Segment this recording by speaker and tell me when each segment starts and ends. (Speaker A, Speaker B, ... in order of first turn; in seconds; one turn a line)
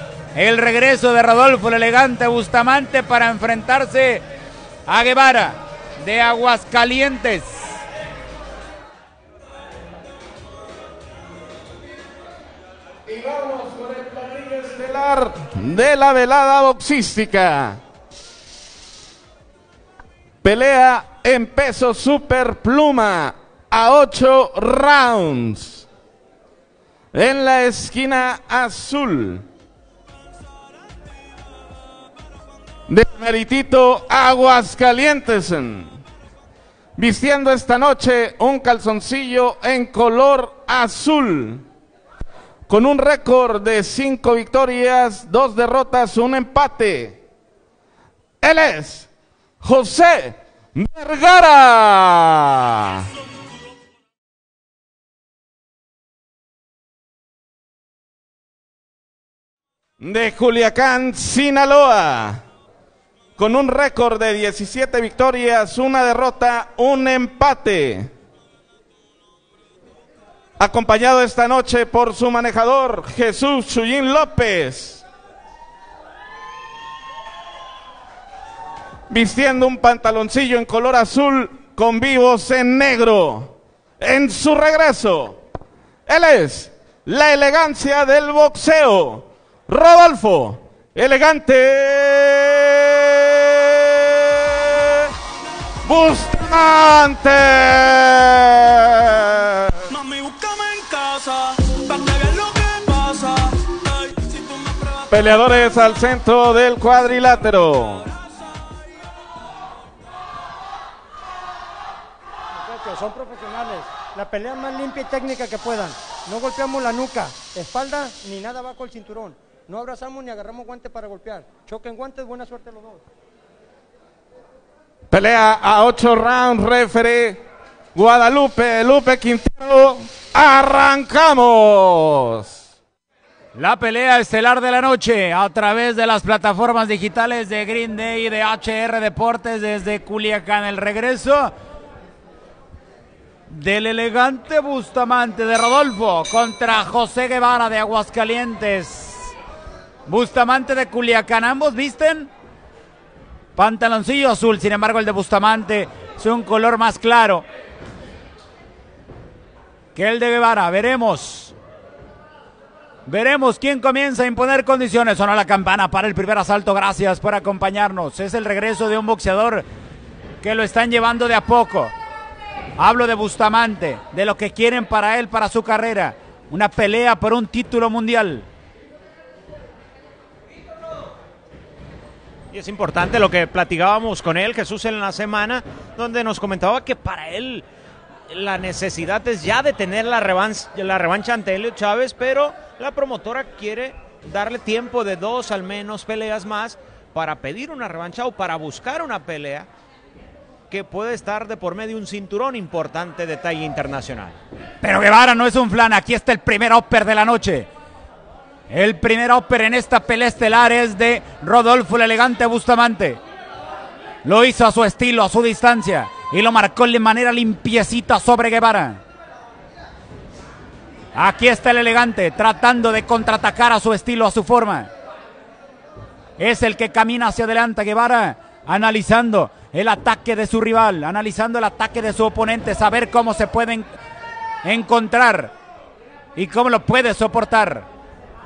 Speaker A: 0.3-4.2
Speaker A: 4.9-7.7
Speaker B: 13.1-17.8
Speaker B: 20.4-25.9
Speaker B: 27.1-29.4
Speaker B: 32.9-35.9
Speaker B: 37.0-41.6
Speaker B: 42.7-47.2
Speaker B: 48.4-49.1
Speaker B: 49.6-53.0
Speaker B: 60.0-62.4
Speaker B: 63.4-68.1
Speaker B: 70.6-75.0
Speaker B: 79.1-85.4
Speaker B: 86.1-95.1
Speaker B: 95.8-100.5
Speaker C: 100.3-101.4
Speaker C: 101.9-102.9
Speaker B: 102.4-103.5
Speaker B: 105.0-108.1
Speaker D: 112.5-123.0
Speaker B: 125.1-127.4
Speaker B: 127.9-132.6
Speaker A: 133.5-141.5
Speaker A: 143.5-149.3
Speaker A: 150.1-152.3
Speaker A: 153.6-157.5
Speaker A: 159.9-161.5
Speaker A: 163.1-169.7
Speaker A: 170.4-171.9
Speaker A: 172.8-178.5
Speaker E: 182.5-187.6
Speaker E: 188.3-199.7
Speaker E: 200.7-204.3
Speaker A: 204.8-207.7
Speaker A: 208.7-213.2
Speaker A: 214.2-219.0
Speaker A: 221.2-224.9
Speaker A: 226.4-234.0
Speaker A: 234.6-235.5
Speaker A: 236.3-237.8